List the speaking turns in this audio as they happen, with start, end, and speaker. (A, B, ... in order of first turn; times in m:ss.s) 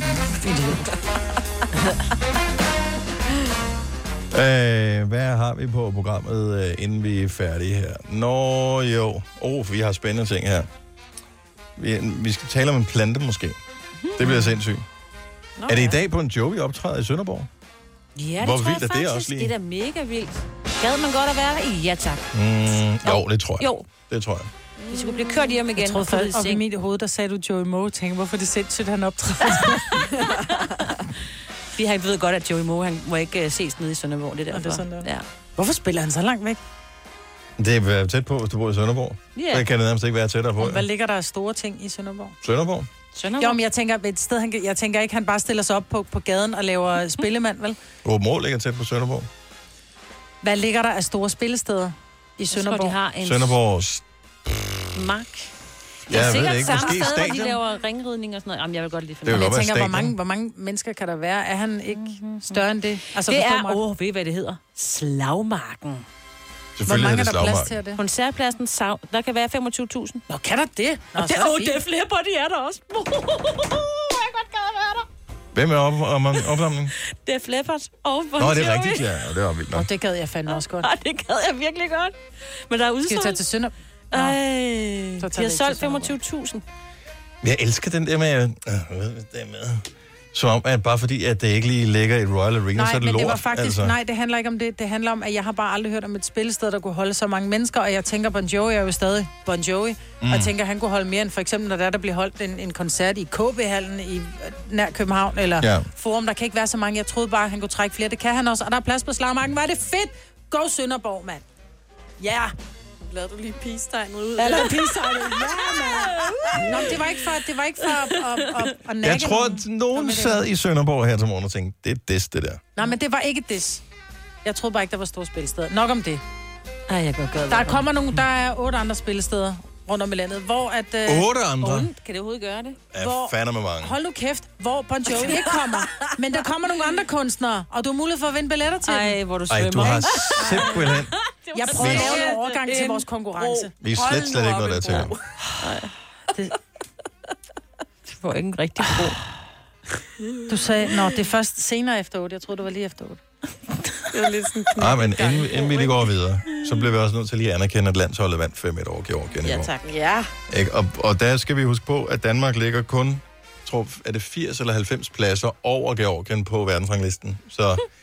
0:00.2-0:00.9 A
0:04.3-0:10.7 B
0:11.8-0:13.6 B
0:14.0-0:14.5 C
0:14.2-0:14.8 B
0:15.6-0:16.0 D
0:15.7-0:17.5 B
0:18.2-0:23.9 C
0:18.4-0:19.5 B
0:22.3-0:24.5 B
0:24.8-0:25.6 D
0:24.9-0:26.6 C
0:25.8-0:30.1 A
0:31.7-0:35.2 C
0:34.5-0:36.6 A
0:37.6-0:40.9 B
0:39.4-0:39.7 C
0:40.6-0:42.4 A
0:42.4-0:42.9 B
0:43.1-0:43.6 C
0:43.4-0:47.8 A
0:48.0-0:49.3 B
0:50.4-0:53.0 A
0:52.5-0:53.6 C
0:53.2-0:54.8 B
0:54.9-0:55.5 C
0:56.1-0:57.6 B
0:56.1-0:59.5 C
0:59.2-1:00.1 B
0:59.3-1:03.8 A
1:01.9-1:02.6 C
1:03.1-1:06.0 C
1:06.8-1:07.8 B
1:06.8-1:08.0 A
1:08.0-1:10.2 C
1:10.3-1:11.8 A
1:11.2-1:15.0 C
1:15.5-1:16.9 B
1:17.1-1:19.2 C
1:18.4-1:19.9 B
1:19.7-1:20.9 A
1:20.5-1:22.1 C
1:22.7-1:23.4 C
1:23.1-1:24.4 A
1:24.1-1:26.6 C
1:25.2-1:26.1 A
1:27.4-1:34.0 B
1:32.7-1:51.4 A
1:40.2-1:40.5 B
1:45.6-1:45.9 B
1:52.2-1:52.5 A
1:53.0-1:55.0 D
1:54.4-2:00.4 A
1:59.0-2:02.6 B
2:02.8-2:03.8 A
2:04.4-2:06.2 A
2:06.9-2:07.9 C
2:07.5-2:11.3 A
2:11.0-2:11.9 B
2:11.6-2:12.8 C
2:12.9-2:14.0 B
2:13.0-2:19.2 A
2:18.8-2:23.0 C
2:19.5-2:21.1 B
2:21.5-2:23.7 A
2:21.7-2:22.2 B
2:23.8-2:25.2 B
2:23.8-2:25.2 D
2:25.6-2:25.9 C
2:28.1-2:29.3 C
2:30.5-2:33.2 A
2:34.1-2:36.1 D
2:34.8-2:39.7 B
2:39.4-2:39.9 C
2:39.8-2:40.3 D
2:40.5-2:47.8 B